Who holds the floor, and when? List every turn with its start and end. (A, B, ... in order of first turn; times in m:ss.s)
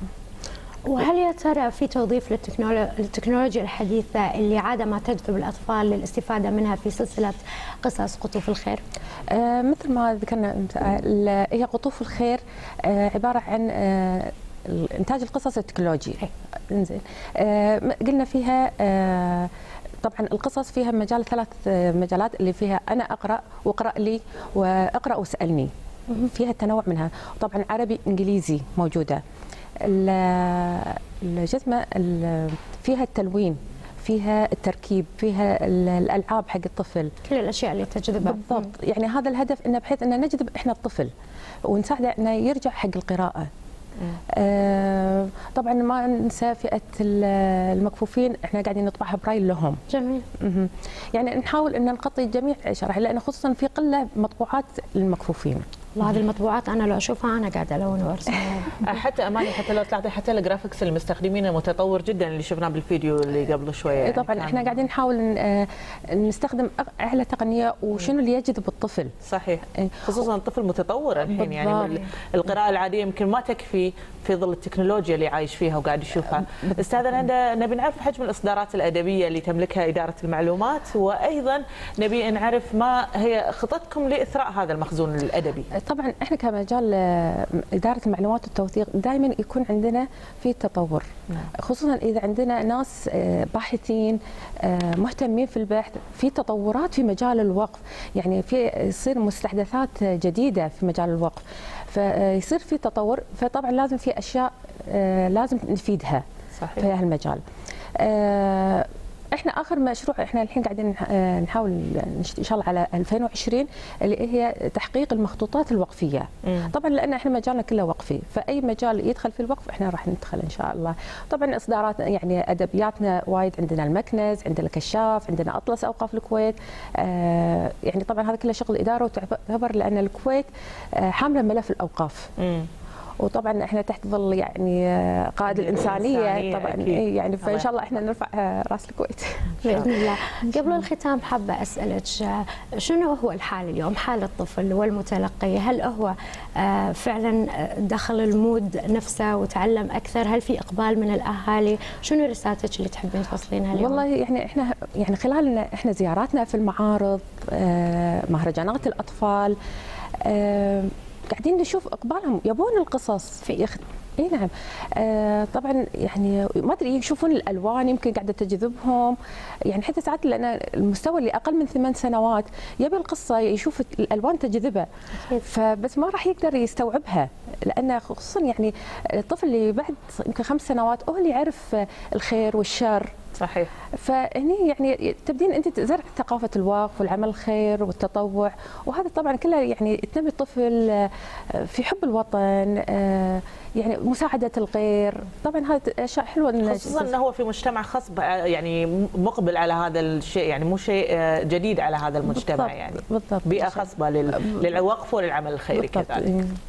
0:00.9-0:08.8 A
0:09.3-0:19.5 B
0:20.0-0:29.2 B
0:29.8-0:37.1 B
0:37.2-0:38.7 A
0:38.2-0:41.1 B
0:41.7-0:43.5 B
0:44.3-0:49.8 B
0:49.9-0:50.3 A
0:50.4-0:55.6 B
0:56.0-0:58.8 A
0:58.8-1:04.8 C
1:04.0-1:09.1 B
1:09.2-1:25.7 C
1:09.8-1:10.1 B
1:11.3-1:12.0 B
1:16.5-1:16.8 B
1:25.7-1:46.2 B
1:46.6-1:46.9 C
1:46.8-1:47.4 B
1:48.0-2:12.3 B
2:12.4-2:12.7 C
2:13.2-2:20.2 B
2:15.5-2:17.8 C
2:19.6-2:34.0 A
2:33.7-2:39.6 B
2:40.2-2:49.2 B
2:49.7-3:03.2 B
3:03.4-3:03.7 C
3:04.0-3:17.1 B
3:16.6-3:26.3 C
3:22.3-3:24.7 B
3:25.7-3:26.6 B